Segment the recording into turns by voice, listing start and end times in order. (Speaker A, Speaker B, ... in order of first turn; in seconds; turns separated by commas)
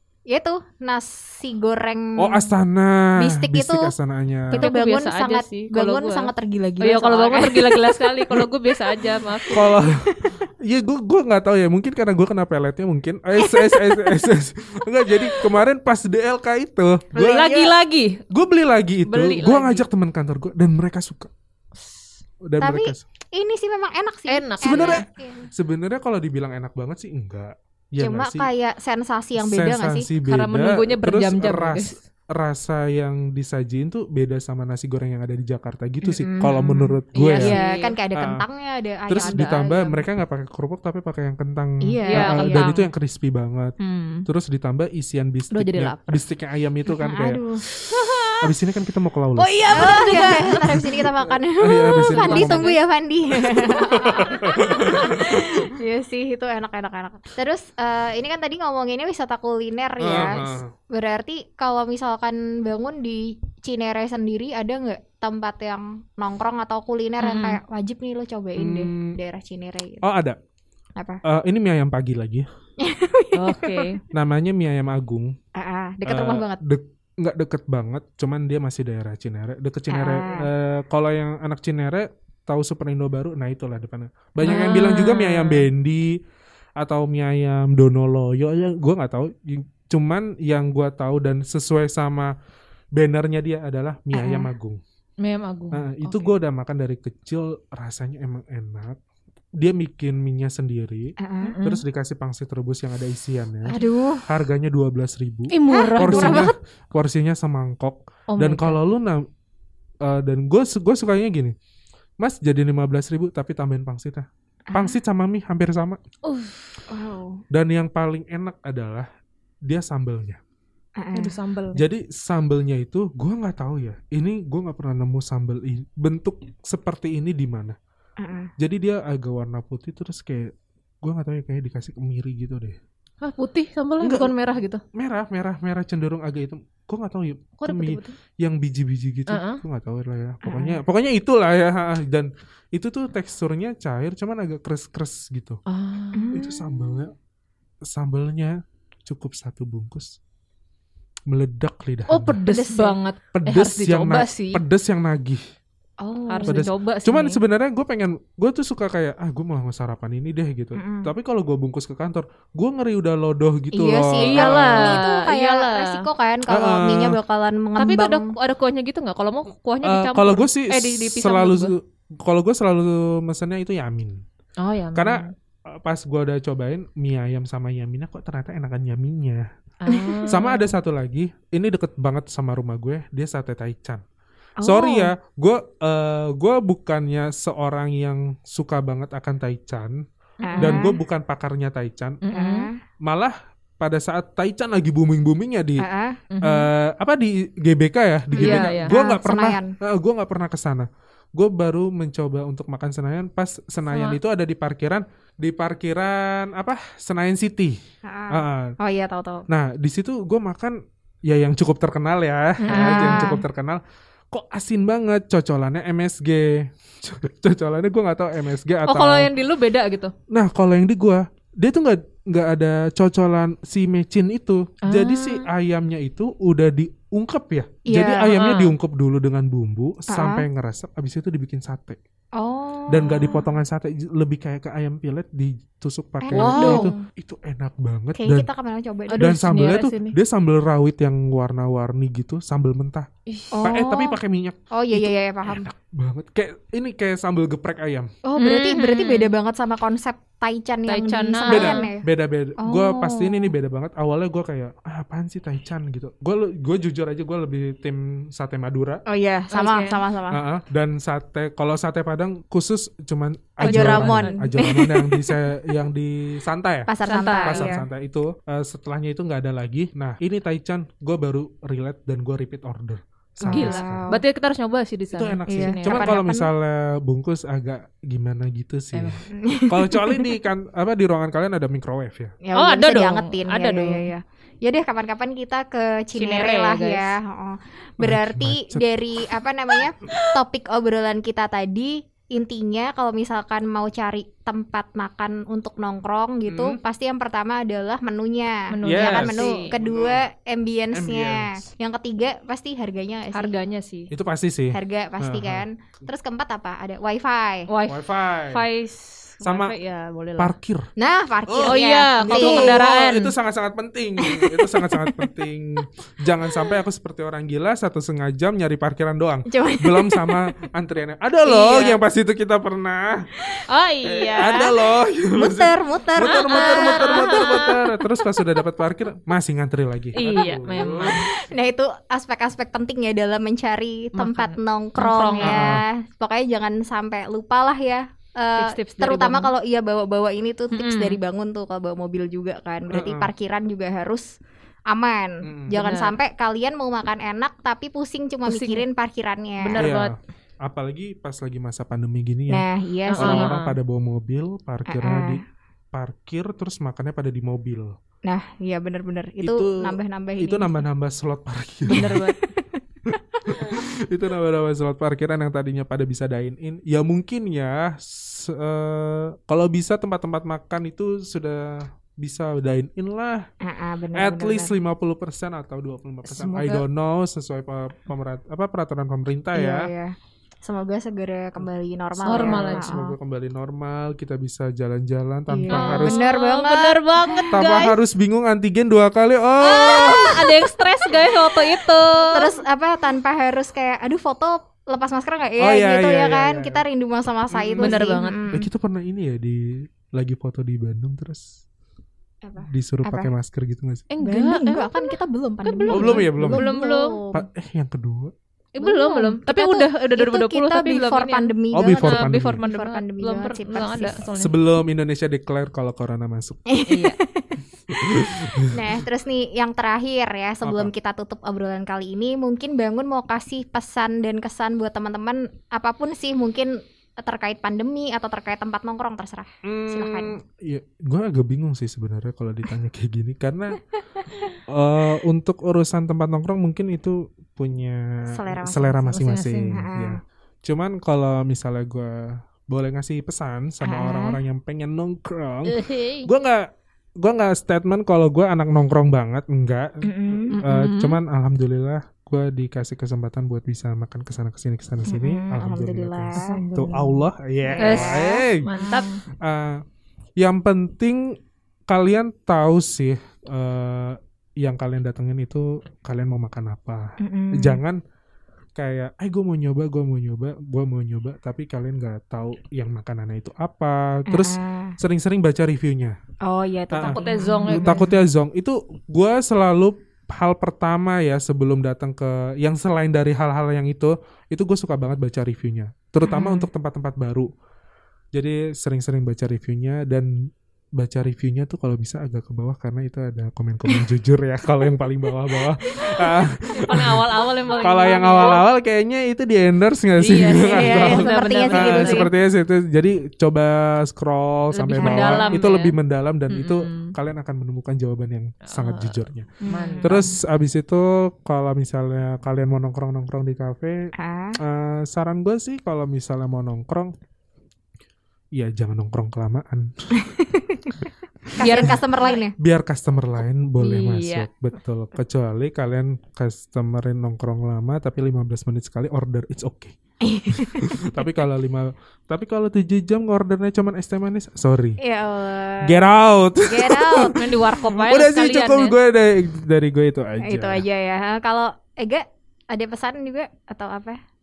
Speaker A: 0.3-2.5, Speaker B: 2.2-4.7, Speaker A: 3.2-3.9, Speaker A: 4.5-8.4, Speaker C: 4.5-9.7, Speaker A: 9.2-10.4, Speaker B: 9.5-17.5, Speaker A: 13.4-14.2, Speaker C: 17.1-18.2, Speaker A: 17.2-17.7, Speaker B: 18.3-21.3, Speaker C: 19.1-19.9, Speaker B: 22.4-23.0, Speaker A: 22.6-25.5, Speaker C: 24.3-25.1, Speaker B: 24.6-28.5, Speaker A: 28.0-30.1, Speaker B: 29.4-37.6, Speaker C: 30.2-32.0, Speaker A: 36.0-40.0, Speaker C: 37.2-38.0, Speaker B: 38.1-38.5, Speaker B: 39.1-49.5, Speaker C: 39.2-39.9, Speaker A: 41.8-42.7, Speaker C: 42.1-42.9, Speaker C: 43.8-44.3, Speaker C: 45.5-46.2, Speaker A: 46.9-47.6, Speaker C: 47.9-48.5, Speaker C: 49.4-51.1, Speaker A: 49.7-70.0, Speaker B: 51.6-52.7, Speaker C: 52.0-52.8, Speaker B: 53.5-55.7, Speaker B: 60.0-60.7, Speaker C: 67.2-67.6, Speaker B: 68.6-69.2, Speaker B: 70.0-70.4, Speaker B: 71.2-72.5, Speaker A: 72.8-74.0, Speaker C: 73.3-74.0, Speaker B: 74.1-75.4, Speaker A: 75.6-76.6, Speaker B: 76.0-86.2, Speaker A: 79.9-80.5, Speaker A: 84.4-85.0, Speaker C: 84.4-85.6, Speaker B: 86.8-92.3, Speaker B: 93.0-94.8, Speaker A: 94.1-94.5, Speaker C: 95.2-96.3, Speaker B: 95.7-99.0, Speaker B: 99.6-109.2, Speaker A: 101.2-101.6, Speaker C: 101.4-101.8, Speaker A: 103.7-104.2, Speaker C: 105.5-106.5, Speaker A: 105.7-106.5, Speaker C: 108.3-108.8, Speaker B: 110.0-111.5, Speaker B: 112.2-116.0, Speaker A: 114.7-115.0, Speaker C: 116.2-116.7, Speaker A: 116.9-117.4, Speaker B: 117.5-119.1, Speaker B: 119.7-120.4, Speaker A: 121.0-121.3, Speaker C: 121.2-121.8, Speaker B: 121.7-127.8, Speaker A: 128.2-128.5, Speaker B: 128.6-132.8, Speaker C: 133.2-134.8, Speaker B: 134.0-134.3, Speaker B: 134.9-145.6, Speaker C: 137.6-138.2, Speaker C: 139.3-139.6, Speaker A: 140.4-140.8, Speaker C: 145.7-146.3, Speaker A: 146.1-147.1, Speaker B: 146.3-147.1, Speaker B: 147.8-150.2, Speaker B: 151.3-152.4, Speaker C: 152.1-154.6, Speaker A: 152.5-153.0, Speaker B: 153.3-155.4, Speaker A: 156.0-156.6, Speaker C: 156.3-157.4, Speaker B: 156.4-165.1, Speaker A: 160.8-161.1, Speaker A: 163.7-168.3, Speaker C: 164.2-166.1, Speaker B: 166.5-167.2, Speaker C: 167.8-171.7, Speaker B: 169.8-174.2, Speaker C: 174.6-175.3, Speaker B: 174.9-179.5, Speaker C: 179.8-180.7, Speaker A: 179.9-180.3, Speaker B: 180.3-184.0, Speaker A: 184.6-185.1, Speaker B: 184.6-190.0, Speaker A: 190.4-190.9, Speaker C: 190.5-190.9, Speaker B: 190.6-192.2, Speaker C: 192.2-192.7, Speaker A: 192.3-192.8, Speaker B: 193.0-195.8, Speaker A: 195.8-196.2, Speaker C: 196.3-196.7, Speaker B: 196.4-207.8, Speaker A: 198.3-199.8, Speaker C: 198.4-198.9, Speaker A: 208.0-209.4, Speaker B: 208.3-208.8, Speaker B: 209.5-219.3, Speaker C: 212.6-213.4, Speaker A: 212.7-213.4, Speaker C: 218.8-220.1, Speaker B: 220.3-232.0, Speaker C: 224.8-225.4, Speaker A: 227.9-228.4, Speaker C: 228.3-228.8, Speaker A: 230.1-230.4, Speaker A: 232.4-233.4, Speaker B: 232.9-238.5, Speaker A: 236.2-237.1, Speaker C: 236.3-236.9, Speaker A: 238.2-239.3, Speaker C: 239.1-240.2, Speaker B: 239.2-243.1, Speaker C: 243.3-243.7, Speaker A: 243.5-244.2, Speaker B: 243.6-248.1, Speaker A: 244.7-245.7, Speaker A: 248.3-252.0, Speaker C: 248.3-249.3, Speaker C: 250.9-251.9, Speaker B: 251.5-259.0, Speaker A: 252.6-253.5, Speaker A: 259.1-260.4, Speaker C: 259.5-260.0, Speaker B: 260.3-266.9, Speaker A: 263.6-265.8, Speaker C: 263.6-264.4, Speaker A: 266.9-267.9, Speaker C: 267.1-267.8, Speaker B: 267.4-274.1, Speaker A: 273.4-274.2, Speaker C: 273.5-276.2, Speaker B: 275.1-282.4, Speaker A: 275.5-276.5, Speaker C: 278.9-279.2, Speaker A: 279.3-280.3, Speaker A: 282.4-303.5, Speaker C: 282.5-284.1, Speaker C: 286.1-287.1, Speaker B: 288.0-288.9, Speaker B: 296.5-296.8, Speaker C: 298.7-299.8, Speaker B: 298.8-300.2, Speaker B: 300.9-301.7, Speaker C: 303.3-304.1, Speaker B: 304.1-305.7, Speaker A: 304.7-307.7, Speaker C: 307.7-310.5, Speaker B: 307.9-308.6, Speaker B: 309.4-309.8, Speaker B: 310.4-310.9, Speaker A: 311.0-312.8, Speaker B: 311.5-323.3, Speaker C: 311.6-313.3, Speaker A: 314.2-315.3, Speaker A: 319.5-320.4, Speaker C: 321.4-322.0, Speaker C: 323.7-324.7, Speaker B: 324.0-331.2, Speaker A: 325.4-327.7, Speaker C: 326.3-327.8, Speaker C: 330.1-331.3, Speaker A: 330.8-344.4, Speaker C: 334.1-335.8, Speaker B: 335.4-335.8, Speaker C: 338.6-339.5, Speaker C: 340.7-341.2, Speaker B: 342.9-343.3, Speaker A: 344.9-349.9, Speaker B: 345.4-345.8, Speaker C: 345.7-346.2, Speaker C: 348.5-348.9, Speaker C: 349.6-350.2, Speaker B: 349.8-355.4, Speaker A: 352.5-353.5, Speaker C: 353.1-353.8, Speaker A: 354.9-355.4, Speaker B: 355.9-358.0, Speaker A: 358.3-360.8, Speaker B: 359.4-362.2, Speaker C: 361.9-362.4, Speaker A: 361.9-363.8, Speaker B: 363.4-373.5, Speaker A: 373.6-374.7, Speaker B: 374.1-379.9, Speaker C: 376.2-376.8, Speaker A: 379.5-383.0, Speaker C: 382.2-383.1, Speaker B: 382.3-386.2, Speaker A: 385.5-387.6, Speaker C: 385.7-388.0, Speaker B: 387.5-390.6, Speaker C: 389.6-392.5, Speaker A: 392.2-398.7, Speaker B: 395.6-396.8, Speaker B: 397.5-401.5, Speaker C: 397.8-398.5, Speaker A: 402.4-403.3, Speaker B: 402.6-404.1, Speaker C: 404.1-407.2, Speaker A: 404.2-407.4, Speaker B: 405.9-406.7, Speaker B: 407.3-408.3, Speaker C: 408.8-414.6, Speaker A: 408.8-414.2, Speaker B: 411.7-412.6, Speaker B: 414.4-416.6, Speaker A: 416.7-417.5, Speaker C: 416.9-417.2, Speaker B: 417.9-418.8, Speaker A: 418.7-430.4, Speaker B: 420.6-420.9, Speaker B: 429.6-433.8, Speaker B: 434.7-458.7, Speaker A: 438.2-440.2, Speaker C: 439.1-439.7, Speaker A: 443.8-444.4, Speaker C: 445.7-446.3, Speaker A: 450.0-450.6, Speaker C: 450.5-451.2, Speaker A: 455.1-456.6, Speaker C: 456.4-457.3, Speaker A: 457.6-459.2, Speaker C: 457.8-459.1, Speaker B: 459.4-459.8, Speaker B: 460.4-461.4, Speaker B: 461.9-468.0, Speaker A: 467.2-467.8, Speaker B: 468.8-476.2, Speaker A: 474.3-475.0, Speaker A: 476.4-478.1, Speaker B: 476.9-487.5, Speaker C: 477.0-478.1, Speaker A: 486.2-486.7, Speaker B: 488.3-497.2, Speaker C: 496.7-498.6, Speaker B: 497.8-509.5, Speaker C: 500.2-502.3, Speaker A: 500.4-502.3, Speaker C: 504.7-505.9, Speaker A: 505.0-505.6, Speaker C: 506.5-507.1, Speaker C: 508.6-509.1, Speaker A: 509.6-510.4, Speaker C: 509.7-510.2, Speaker B: 510.0-517.1, Speaker A: 514.2-514.6, Speaker B: 518.5-520.2, Speaker A: 520.1-521.0, Speaker A: 521.5-522.5, Speaker C: 521.6-522.4, Speaker B: 522.6-530.0, Speaker C: 523.8-524.5, Speaker A: 530.2-531.3, Speaker B: 530.5-535.0, Speaker A: 535.0-536.0, Speaker B: 535.8-540.8, Speaker A: 536.6-537.4, Speaker C: 537.4-539.0, Speaker A: 540.4-544.2